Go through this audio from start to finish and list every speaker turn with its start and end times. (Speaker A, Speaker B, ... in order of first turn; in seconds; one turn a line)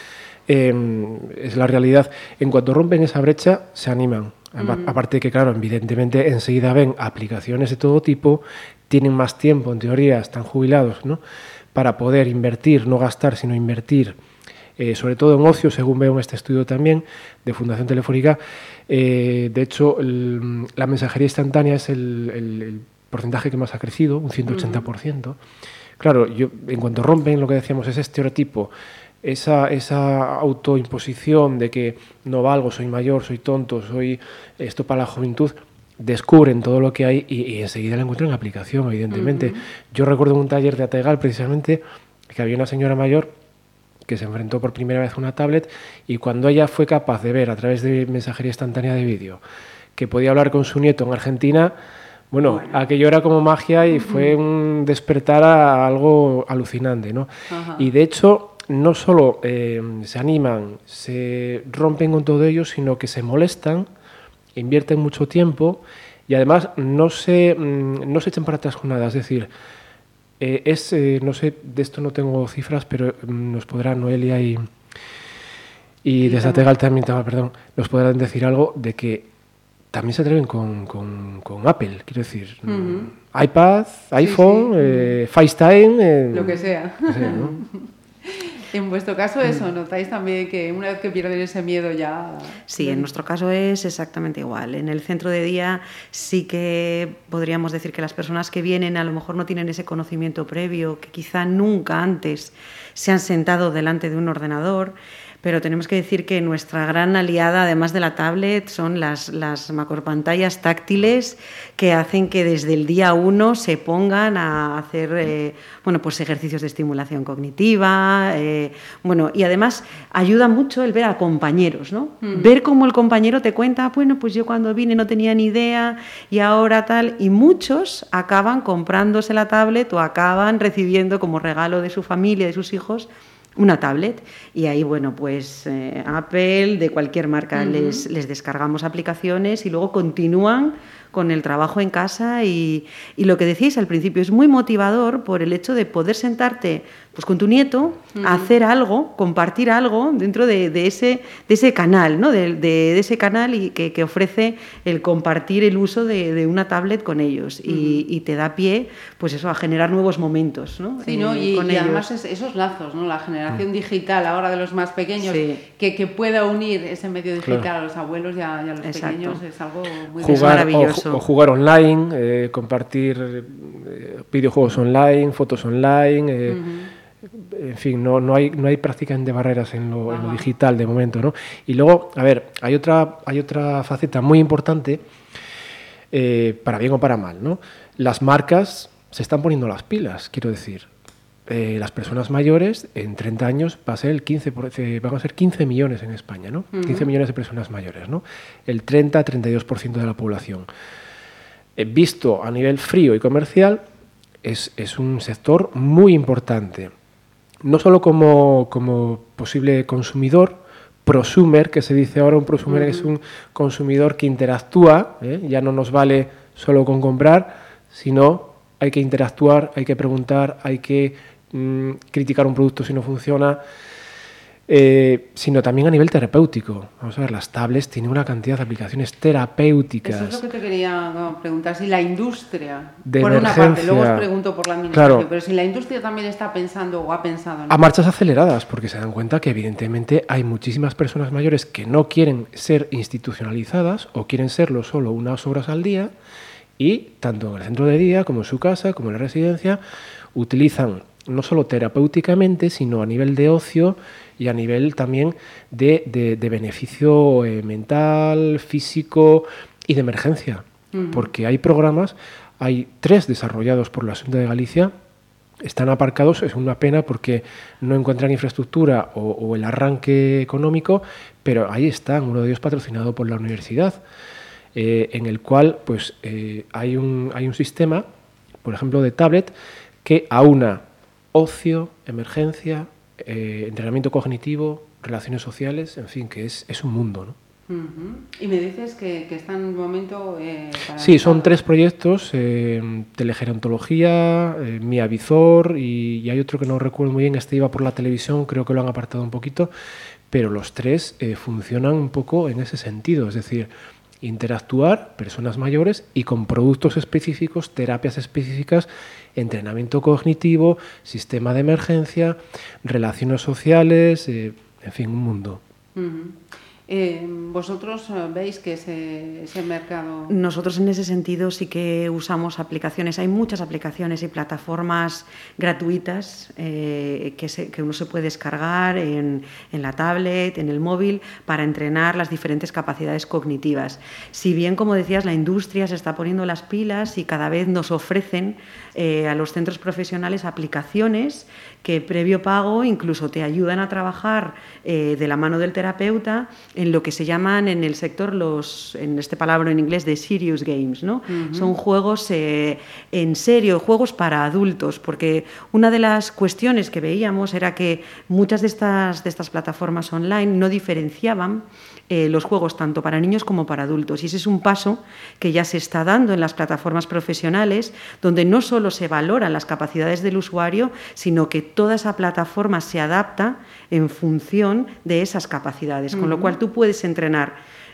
Speaker A: 0.5-11.2
Speaker B: 4.6-5.0
Speaker A: 11.7-14.2
Speaker A: 14.8-25.4
Speaker B: 24.5-24.9
Speaker A: 26.0-28.7
Speaker A: 29.2-43.3
Speaker B: 39.1-39.6
Speaker A: 44.0-49.4
Speaker A: 50.0-51.7
Speaker A: 52.3-63.9
Speaker B: 52.4-52.8
Speaker B: 57.5-57.9
Speaker A: 64.5-69.5
Speaker A: 70.4-74.7
Speaker A: 76.0-79.3
Speaker B: 76.2-76.7
Speaker A: 79.9-87.6
Speaker B: 82.7-83.1
Speaker B: 84.2-85.1
Speaker B: 86.3-93.1
Speaker C: 92.7-162.1
Speaker B: 122.2-122.5
Speaker B: 137.5-138.1
Speaker B: 148.1-148.5
Speaker B: 157.7-158.0
Speaker B: 161.0-170.7
Speaker C: 165.2-165.6
Speaker A: 167.4-167.7
Speaker C: 168.8-169.4
Speaker A: 170.2-176.6
Speaker C: 170.2-171.2
Speaker B: 176.5-176.9
Speaker A: 177.2-185.0
Speaker B: 180.1-180.5
Speaker A: 186.1-190.9
Speaker A: 191.5-200.7
Speaker B: 196.7-197.1
Speaker A: 201.8-203.8
Speaker A: 204.4-206.9
Speaker A: 207.6-223.6
Speaker B: 212.7-213.1
Speaker A: 224.7-230.4
Speaker B: 230.0-237.8
Speaker A: 233.0-234.3
Speaker A: 234.9-235.3
Speaker A: 237.7-246.1
Speaker A: 246.8-249.8
Speaker A: 250.3-264.9
Speaker B: 260.9-261.3
Speaker A: 265.6-274.0
Speaker A: 274.7-278.1
Speaker A: 278.6-279.5
Speaker A: 280.0-287.4
Speaker B: 287.7-291.6
Speaker A: 291.0-299.7
Speaker A: 300.3-303.7
Speaker A: 304.2-315.6
Speaker B: 315.9-320.3
Speaker C: 320.3-377.6
Speaker B: 351.3-351.7
Speaker B: 376.1-376.6